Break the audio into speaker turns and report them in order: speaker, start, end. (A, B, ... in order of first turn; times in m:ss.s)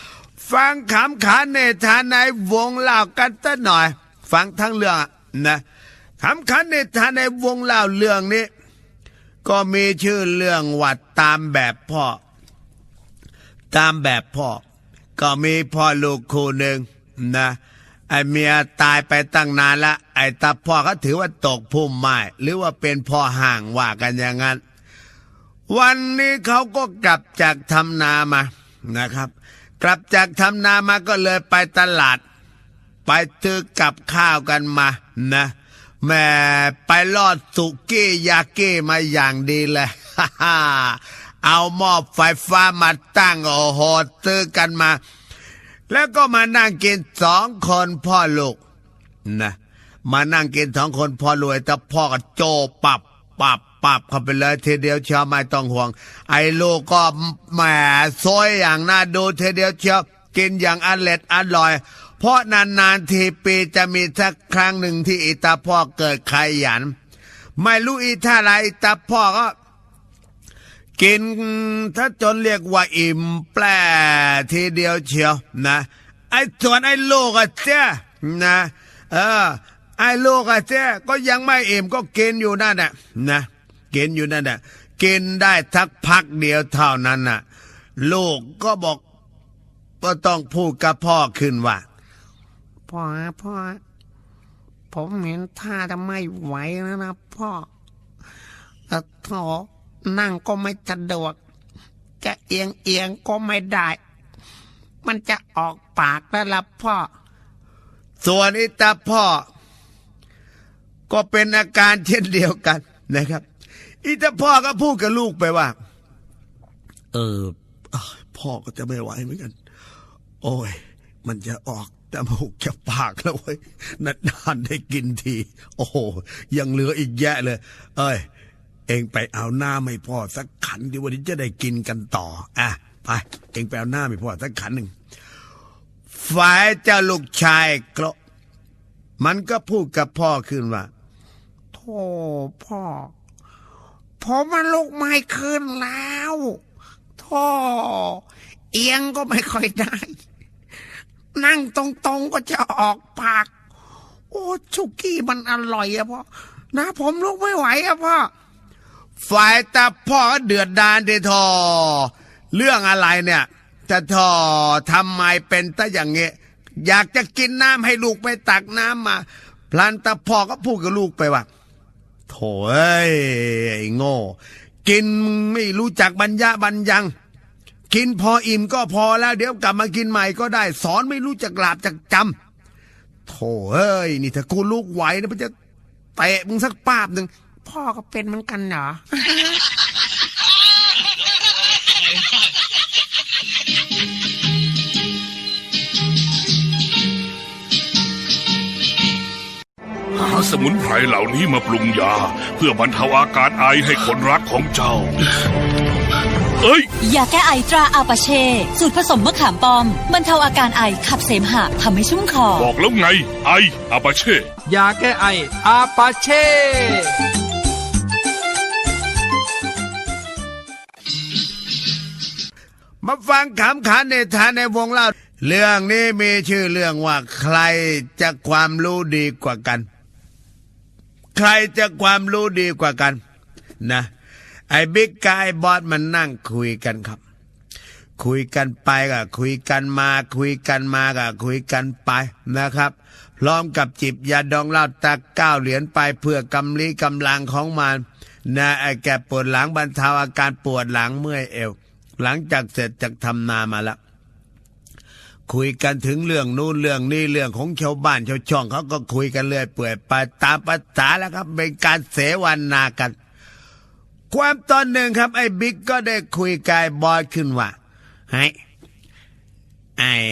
0:00.4-0:05.6 A
0:06.2-0:08.5 A
0:09.4-0:12.2 A
0:13.7-0:14.6 A
0:15.2-0:17.6 A
0:18.1-0:24.6 A
0:25.7-0:32.2 A
0:33.0-0:45.0 A
0:45.9-0:48.6 A
0:49.3-1:07.0 A
1:07.6-1:09.5 A
1:11.0-1:27.4 A
1:28.0-1:29.0 A
1:30.0-1:31.8 A
1:32.9-1:33.8 B
1:34.9-1:37.7 B
1:38.9-1:41.4 B
1:42.2-1:44.0 B
1:45.0-1:47.1 B
1:48.2-1:49.4 A
1:51.1-1:53.4 A
1:54.0-1:55.8 A
1:57.1-1:59.5 A
2:00.4-2:08.2 A
2:08.9-2:14.9 A
2:16.2-2:18.2 A
2:19.2-2:20.9 A
2:21.7-2:23.1 B
2:24.2-2:26.6 B
2:27.2-2:30.2 B
2:31.4-2:33.5 B
2:34.3-2:38.3 B
2:39.3-2:51.5 A
2:52.3-2:54.3 A
2:54.9-2:57.1 A
2:57.9-3:02.3 A
3:03.3-3:05.5 A
3:06.2-3:07.3 A
3:07.6-3:09.6 B
3:20.2-3:25.2 C
3:26.6-3:26.9 C
3:27.0-3:32.6 D
3:32.5-3:34.5 C
3:34.7-3:36.9 E
3:43.0-3:49.9 A
3:51.4-3:53.2 A
3:53.8-3:54.1 A
3:54.7-3:57.2 A
3:58.2-4:14.0 A
4:15.5-4:23.1 A
4:24.3-4:27.7 A